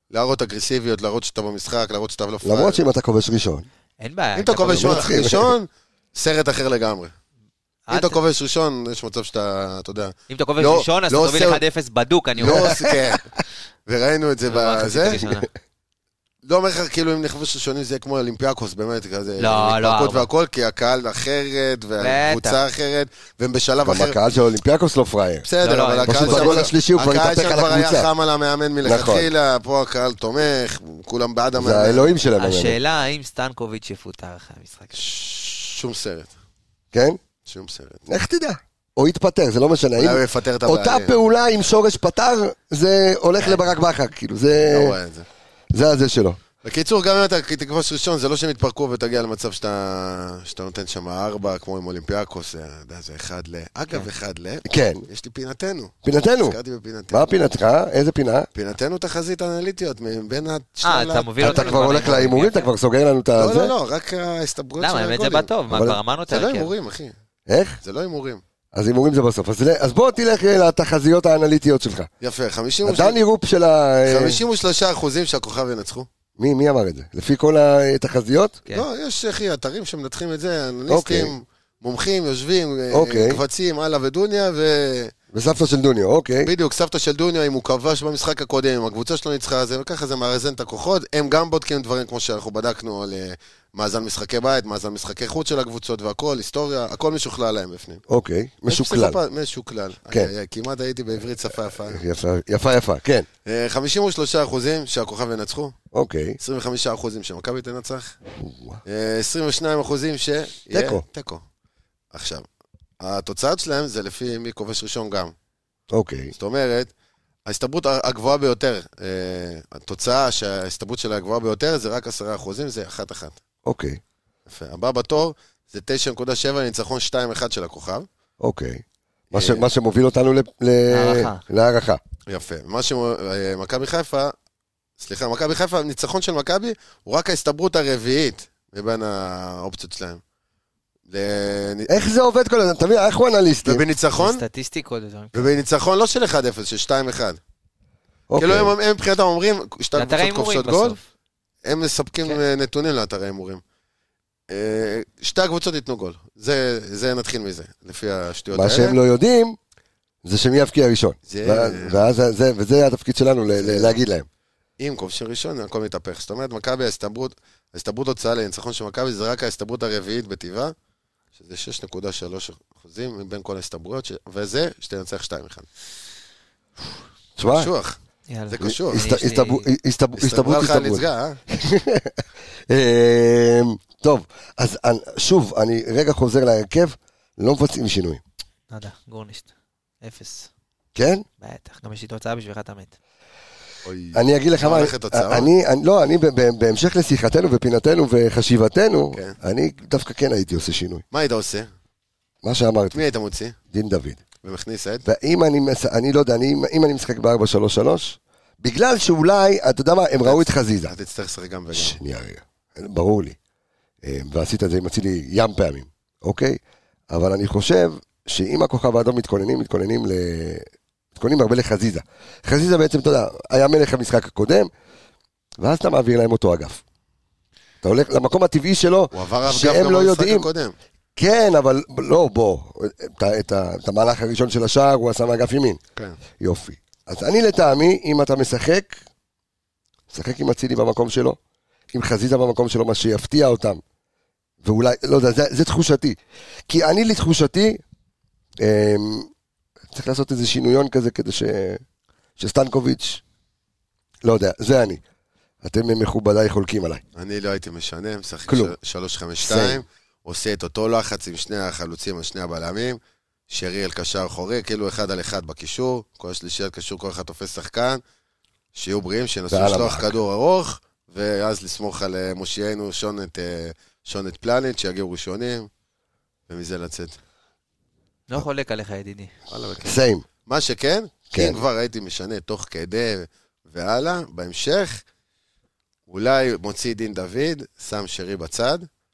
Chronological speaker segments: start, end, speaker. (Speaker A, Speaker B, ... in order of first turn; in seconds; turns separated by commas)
Speaker A: 0.1-2.8, Speaker B: 2.4-3.7, Speaker C: 4.0-5.2, Speaker A: 4.4-7.1, Speaker B: 4.7-5.5, Speaker C: 7.9-8.2, Speaker A: 7.9-11.6, Speaker C: 10.3-12.8, Speaker A: 12.4-13.2, Speaker B: 12.4-13.2, Speaker A: 13.9-15.2, Speaker C: 14.5-15.5, Speaker A: 16.4-24.2, Speaker C: 19.4-20.3, Speaker C: 22.0-22.6, Speaker B: 23.8-25.4, Speaker A: 25.4-32.2, Speaker C: 25.6-26.7, Speaker B: 26.1-28.1, Speaker B: 28.8-29.3, Speaker B: 31.5-32.8, Speaker C: 32.4-35.0, Speaker A: 34.9-36.3, Speaker B: 36.9-37.2, Speaker A: 37.5-38.0, Speaker B: 38.1-45.0, Speaker A: 40.0-41.1, Speaker A: 44.6-45.2, Speaker B: 45.7-46.4, Speaker A: 46.6-57.3, Speaker B: 54.6-55.0, Speaker B: 56.0-56.6, Speaker B: 57.1-58.5, Speaker A: 58.5-62.3, Speaker C: 60.8-62.7, Speaker B: 61.4-63.7, Speaker A: 63.4-65.5, Speaker C: 64.8-66.7, Speaker B: 65.7-66.0, Speaker A: 66.3-67.1, Speaker B: 67.5-67.8, Speaker A: 67.8-68.4, Speaker B: 68.7-72.1, Speaker A: 72.2-73.2, Speaker B: 72.8-74.4, Speaker A: 74.0-76.1, Speaker B: 76.4-78.6, Speaker A: 78.7-85.1, Speaker B: 80.9-81.3, Speaker B: 82.9-83.4, Speaker B: 85.3-86.5, Speaker A: 86.4-98.0, Speaker B: 98.1-99.2, Speaker A: 98.7-102.0, Speaker B: 101.8-103.3, Speaker A: 103.5-105.7, Speaker B: 105.9-106.4, Speaker A: 106.4-108.2, Speaker B: 108.4-108.8, Speaker A: 108.8-111.4, Speaker B: 110.7-111.0, Speaker A: 112.1-112.5, Speaker A: 113.0-115.3, Speaker B: 115.9-116.3, Speaker A: 116.3-116.9, Speaker A: 117.5-123.4, Speaker B: 123.6-124.0, Speaker A: 124.5-128.1, Speaker B: 128.4-132.0, Speaker A: 129.3-129.7, Speaker C: 130.9-131.4, Speaker A: 132.3-134.3, Speaker A: 135.0-140.2, Speaker A: 141.1-142.1, Speaker B: 141.9-143.8, Speaker A: 143.6-144.4, Speaker C: 144.2-145.5, Speaker A: 145.3-147.4, Speaker B: 148.3-148.7, Speaker A: 148.3-151.0, Speaker C: 149.9-151.0, Speaker A: 151.6-153.6, Speaker A: 154.5-159.0, Speaker B: 158.5-159.6, Speaker B: 160.2-164.3, Speaker A: 161.3-162.1, Speaker A: 163.6-163.9, Speaker A: 164.8-170.7, Speaker A: 171.3-175.7, Speaker B: 177.4-177.7, Speaker A: 177.4-178.0, Speaker C: 178.3-179.7, Speaker A: 178.5-179.0, Speaker B: 178.6-188.2, Speaker A: 180.2-181.4, Speaker C: 188.7-189.5, Speaker C: 190.0-190.5, Speaker B: 190.9-191.2, Speaker C: 191.4-192.9, Speaker A: 193.8-195.5, Speaker B: 194.1-201.0, Speaker A: 201.1-201.7, Speaker B: 202.4-203.0, Speaker A: 202.9-203.6, Speaker B: 203.7-204.2, Speaker A: 204.4-205.1, Speaker B: 205.0-210.9, Speaker A: 210.2-212.0, Speaker B: 211.7-213.3, Speaker B: 214.0-224.7, Speaker B: 225.6-226.8, Speaker B: 227.8-230.5, Speaker A: 229.1-230.7, Speaker B: 231.2-235.8, Speaker B: 236.4-239.0, Speaker B: 240.1-241.4, Speaker B: 241.9-243.8, Speaker B: 244.6-247.8, Speaker B: 248.6-249.3, Speaker B: 249.9-251.8, Speaker B: 252.4-253.2, Speaker B: 254.2-255.0, Speaker B: 255.6-257.0, Speaker A: 257.1-263.0, Speaker B: 258.5-258.7, Speaker B: 259.4-259.8, Speaker A: 263.5-268.0, Speaker A: 268.7-275.7, Speaker B: 269.5-270.1, Speaker A: 276.5-277.2, Speaker C: 278.3-279.3, Speaker A: 279.5-285.0, Speaker B: 279.8-280.2, Speaker B: 281.3-281.6, Speaker A: 286.1-288.9